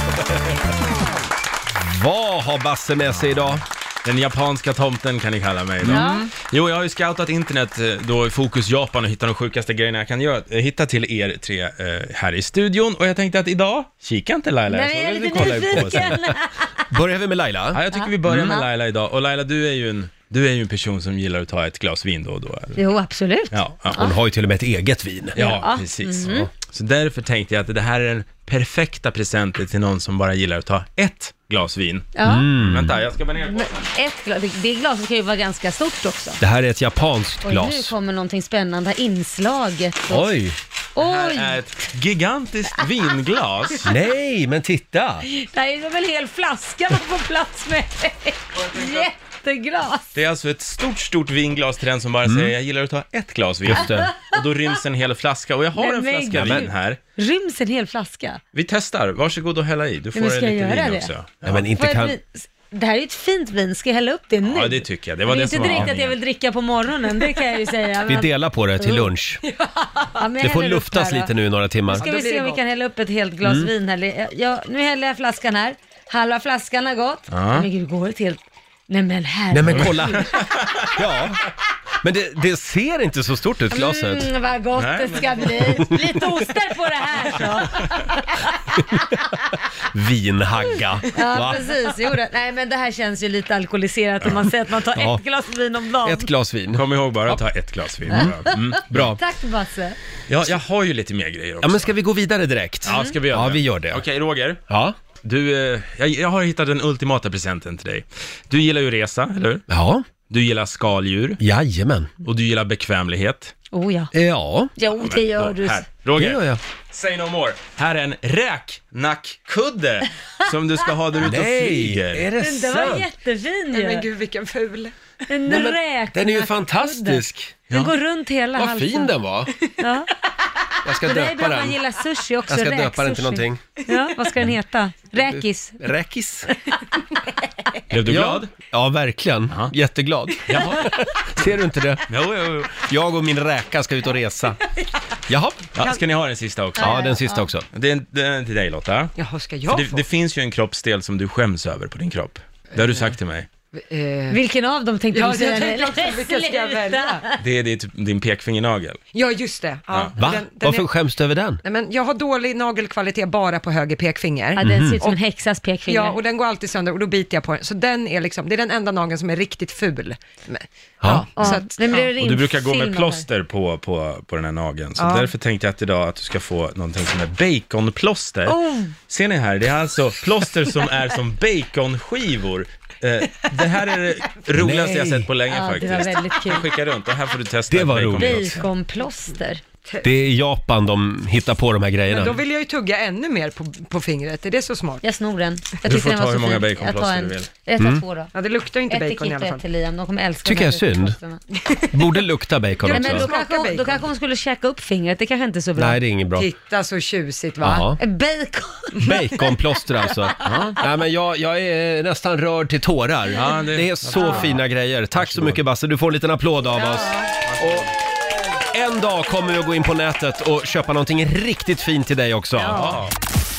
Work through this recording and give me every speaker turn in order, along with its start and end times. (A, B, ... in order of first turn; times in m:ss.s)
0:01.8-0:03.6 A
0:03.0-0:16.3 B
0:05.8-0:06.1 A
0:05.8-0:06.3 C
0:14.7-0:16.8 C
0:15.7-0:16.3 A
0:16.9-0:17.8 A
0:17.7-0:22.8 B
0:17.9-0:18.7 C
0:22.8-0:24.2 C
0:23.5-0:24.1 B
0:23.9-0:25.4 A
0:25.4-0:26.5 C
0:25.4-0:33.9 B
0:32.2-0:32.5 C
0:32.2-0:33.0 A
0:33.4-0:36.4 C
0:36.4-0:37.9 A
0:37.4-0:40.3 C
0:40.1-0:40.6 A
0:41.0-0:41.6 C
0:41.0-0:43.9 B
0:43.8-0:45.3 A
0:45.2-0:50.1 C
0:48.6-0:49.1 B
0:50.1-0:57.0 B
0:52.2-0:52.5 A
0:53.6-0:54.1 A
0:53.8-0:54.4 C
0:55.8-0:58.4 C
0:56.3-0:56.7 A
0:58.5-1:01.7 B
1:00.1-1:01.1 C
1:01.4-1:02.2 A
1:01.8-1:09.1 C
1:04.5-1:06.2 B
1:05.6-1:05.9 A
1:08.0-1:09.4 A
1:09.5-1:10.0 D
1:10.1-1:11.3 C
1:10.4-1:12.1 A
1:11.9-1:20.2 C
1:11.9-1:12.6 D
1:13.4-1:13.7 A
1:17.3-1:17.7 B
1:19.5-1:20.3 A
1:19.7-1:21.0 B
1:21.0-1:21.4 A
1:22.0-1:24.3 A
1:23.7-1:28.8 C
1:24.8-1:25.7 B
1:25.7-1:26.2 A
1:27.7-1:28.1 B
1:29.8-1:31.7 A
1:31.1-1:36.3 C
1:34.9-1:35.2 A
1:36.0-1:37.4 A
1:36.7-1:39.2 B
1:38.1-1:38.4 A
1:38.9-1:39.2 A
1:39.0-1:40.0 C
1:40.3-1:42.0 B
1:41.6-1:44.0 A
1:42.8-1:44.6 B
1:44.7-1:45.0 A
1:45.2-1:49.6 B
1:49.7-1:50.0 A
1:50.3-1:51.4 B
1:51.4-1:52.1 A
1:52.2-1:53.6 B
1:53.7-1:54.1 C
1:54.1-1:54.7 A
1:54.8-1:55.9 C
1:54.9-2:02.3 B
1:56.2-1:56.6 A
2:01.2-2:03.1 A
2:02.4-2:04.1 C
2:03.7-2:05.0 D
2:05.3-2:09.1 C
2:05.5-2:07.6 A
2:08.6-2:09.6 A
2:09.8-2:10.1 C
2:10.8-2:11.8 A
2:11.0-2:15.8 C
2:12.5-2:13.6 A
2:15.2-2:16.5 A
2:17.9-2:18.5 B
2:18.1-2:22.1 A
2:20.4-2:20.9 B
2:22.1-2:22.8 B
2:22.7-2:24.6 A
2:25.3-2:25.7 A
2:25.7-2:27.0 B
2:26.8-2:27.5 C
2:26.8-2:27.6 A
2:27.7-2:29.2 B
2:29.2-2:30.0 D
2:29.7-2:33.5 B
2:33.7-2:34.4 D
2:34.3-2:37.4 C
2:35.1-2:37.2 D
2:37.4-2:39.0 B
2:39.1-2:40.9 D
2:39.9-2:40.2 B
2:40.2-2:41.6 A
2:41.6-2:45.2 D
2:44.5-2:46.2 C
2:44.6-2:45.0 A
2:45.9-2:52.1 D
2:51.0-2:51.3 A
2:51.3-2:53.2 C
2:52.2-2:58.6 B
2:55.0-2:55.3 D
2:58.5-2:58.9 C
2:59.1-3:08.7 B
3:04.6-3:05.3 A
3:05.5-3:06.7 C
3:07.7-3:08.6 A
3:08.1-3:09.6 C
3:10.0-3:12.4 A
3:12.1-3:15.0 D
3:15.0-3:18.3 C
3:15.8-3:17.5 B
3:17.8-3:18.0 A
3:18.3-3:19.6 D
3:18.9-3:21.4 C
3:20.4-3:21.2 A
3:21.9-3:23.3 A
3:22.8-3:24.1 D
3:22.9-3:26.0 C
3:25.8-3:26.5 A
3:26.4-3:27.9 D
3:27.6-3:28.0 A
3:28.0-3:30.6 C
3:29.0-3:37.9 A
3:30.4-3:30.8 B
3:33.3-3:35.6 B
3:34.2-3:34.6 C
3:36.8-3:37.4 C
3:37.4-3:38.0 B
3:38.5-3:42.9 A
3:42.6-3:43.0 C
3:42.6-3:43.1 B